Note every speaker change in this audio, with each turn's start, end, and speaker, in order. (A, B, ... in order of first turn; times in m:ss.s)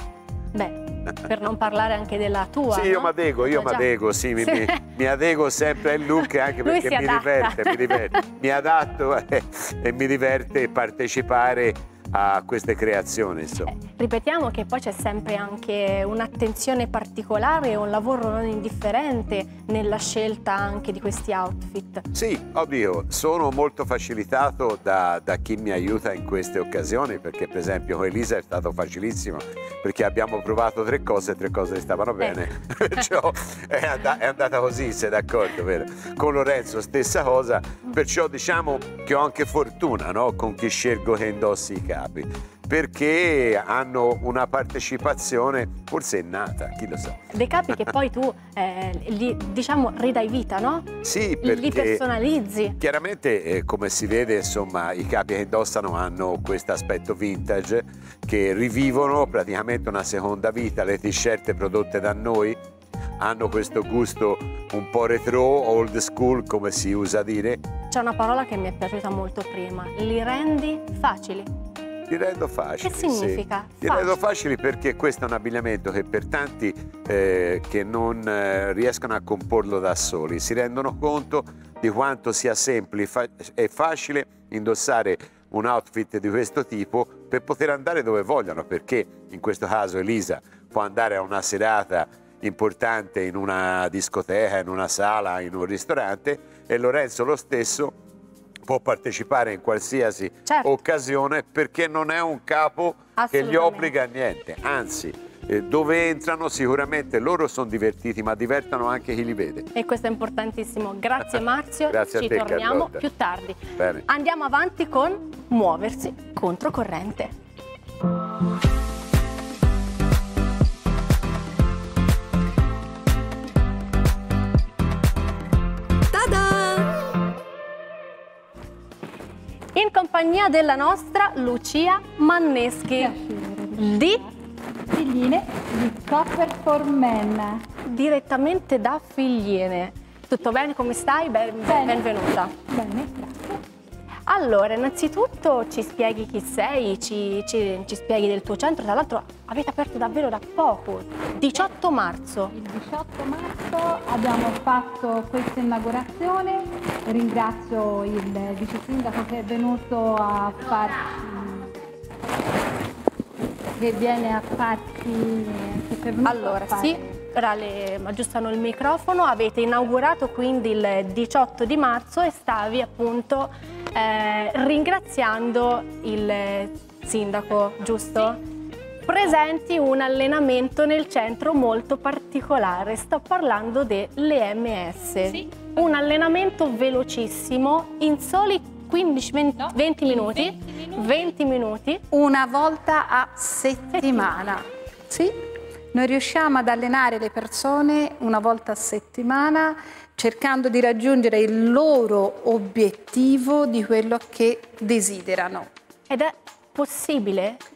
0:00.5-0:03.8 A
0:02.7-0:13.7 B
0:04.4-0:04.8 A
0:06.6-0:08.0 A
0:13.7-0:22.0 A
0:22.1-0:47.3 B
0:47.3-0:50.9 A
0:51.0-0:52.0 B
0:51.4-0:52.8 A
0:52.8-1:02.6 B
1:03.2-1:07.6 B
1:07.9-1:11.5 A
1:12.1-1:37.9 B
1:12.8-1:14.2 A
1:38.7-1:49.7 B
1:40.5-1:40.7 A
1:43.2-1:43.9 A
1:49.8-1:57.3 A
1:51.3-1:53.0 B
1:53.8-1:54.0 B
2:06.1-2:06.9 A
2:09.8-2:13.1 A
2:13.0-2:14.3 C
2:13.8-2:14.2 A
2:14.9-2:17.6 C
2:17.8-2:22.5 A
2:21.7-2:23.6 C
2:24.3-2:32.5 A
2:32.5-2:41.8 C
2:43.8-2:47.2 C
2:46.2-2:58.4 A
2:59.1-3:12.0 A
3:09.7-3:11.0 C
3:12.1-3:15.4 C
3:14.0-3:14.3 A
3:15.9-3:25.7 C
3:26.1-3:27.6 A